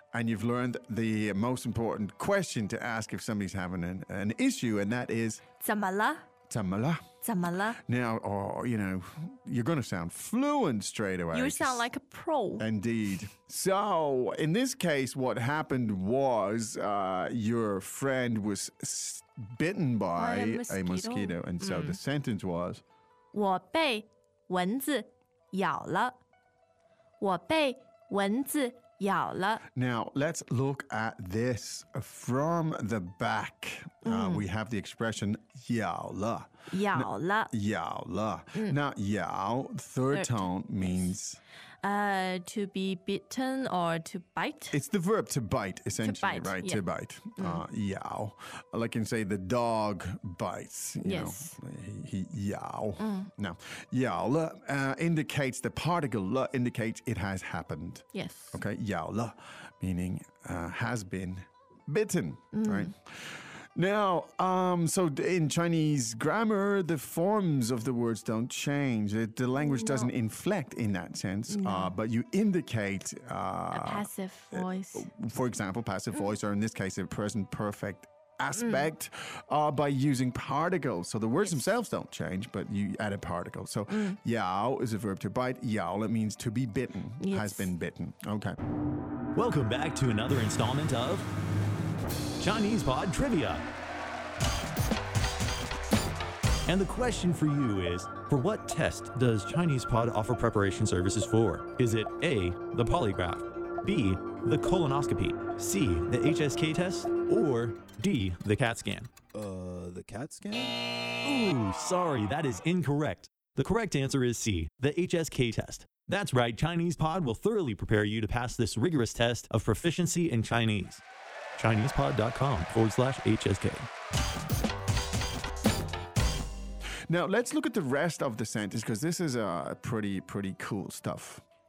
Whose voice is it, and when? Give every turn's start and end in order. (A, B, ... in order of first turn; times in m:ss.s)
0:00.1-0:05.4 A
0:05.6-0:06.2 B
0:06.5-0:07.0 A
0:07.2-0:07.8 B
0:07.8-0:11.8 A
0:11.3-0:12.6 B
0:12.6-0:22.8 A
0:20.1-0:22.0 B
0:23.3-0:26.2 B
0:27.2-0:29.6 B
0:29.7-0:41.4 A
0:34.0-0:34.5 B
0:36.7-0:37.5 B
0:40.1-0:41.1 B
0:41.8-0:44.8 B
0:44.7-1:28.6 A
0:46.0-0:46.8 B
0:47.4-0:47.6 B
0:51.0-0:51.5 B
0:53.0-0:53.3 B
0:58.1-0:58.6 B
1:02.5-1:02.9 B
1:09.6-1:10.1 B
1:11.5-1:11.9 B
1:13.7-1:15.1 B
1:18.6-1:18.9 B
1:21.4-1:21.7 B
1:23.9-1:24.2 B
1:27.2-1:27.7 B
1:29.3-1:31.3 C
1:32.4-1:33.6 C
1:36.6-1:49.1 C
1:51.2-2:01.0 C
2:01.6-2:03.9 C
2:07.1-2:11.4 A